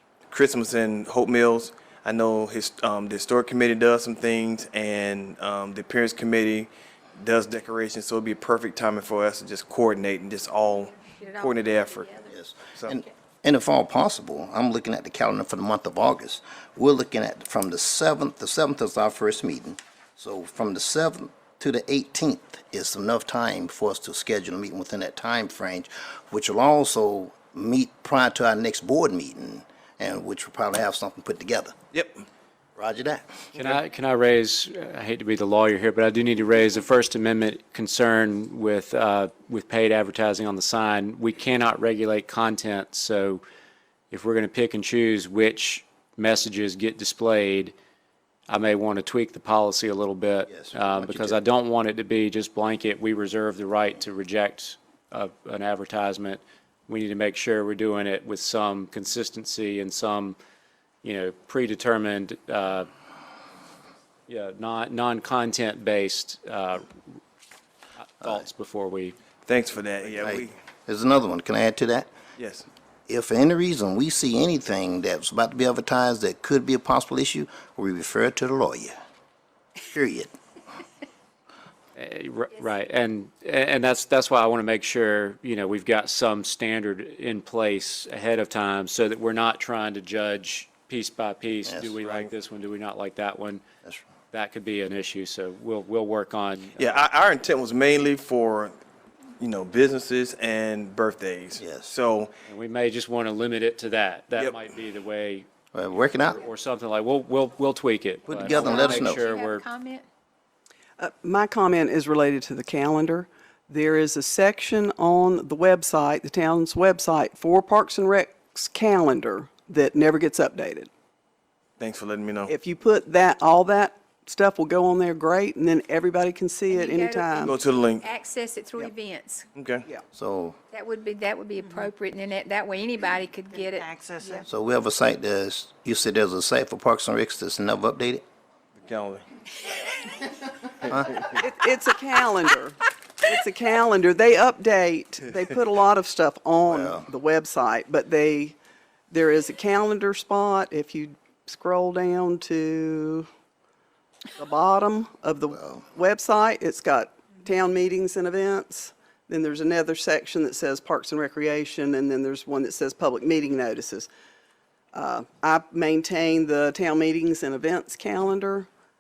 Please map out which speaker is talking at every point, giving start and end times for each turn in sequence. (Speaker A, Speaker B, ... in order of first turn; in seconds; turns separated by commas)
Speaker A: 0.3-12.1, Speaker B: 11.1-12.3, Speaker C: 12.3-31.7, Speaker A: 12.7-13.0, Speaker A: 31.9-32.2, Speaker C: 32.8-33.4, Speaker D: 33.6-43.4, Speaker D: 44.1-47.8, Speaker D: 48.5-60.4, Speaker C: 50.5-51.4, Speaker D: 61.0-62.9, Speaker D: 64.3-67.0, Speaker D: 68.0-69.2, Speaker A: 69.5-70.6, Speaker C: 70.2-72.1, Speaker A: 72.4-72.7, Speaker C: 73.1-79.0, Speaker C: 79.8-80.3, Speaker D: 82.0-93.6, Speaker C: 91.7-91.9, Speaker A: 92.0-92.3, Speaker D: 94.3-96.9, Speaker A: 96.8-98.8, Speaker A: 99.4-102.3, Speaker C: 101.6-101.9, Speaker D: 102.5-105.5, Speaker A: 104.4-104.6, Speaker C: 105.7-106.4, Speaker D: 106.4-109.7, Speaker C: 108.3-109.2, Speaker B: 108.5-110.0, Speaker E: 111.0-120.9, Speaker A: 121.8-122.5, Speaker E: 122.5-127.5, Speaker B: 126.7-129.5, Speaker A: 127.4-128.1, Speaker A: 129.6-129.8, Speaker C: 130.1-130.6, Speaker B: 130.7-134.4, Speaker C: 134.5-138.2, Speaker A: 138.8-139.2, Speaker A: 140.9-141.2, Speaker E: 141.4-148.6, Speaker C: 146.7-147.1, Speaker E: 149.1-153.3, Speaker E: 154.4-164.1, Speaker E: 164.9-168.7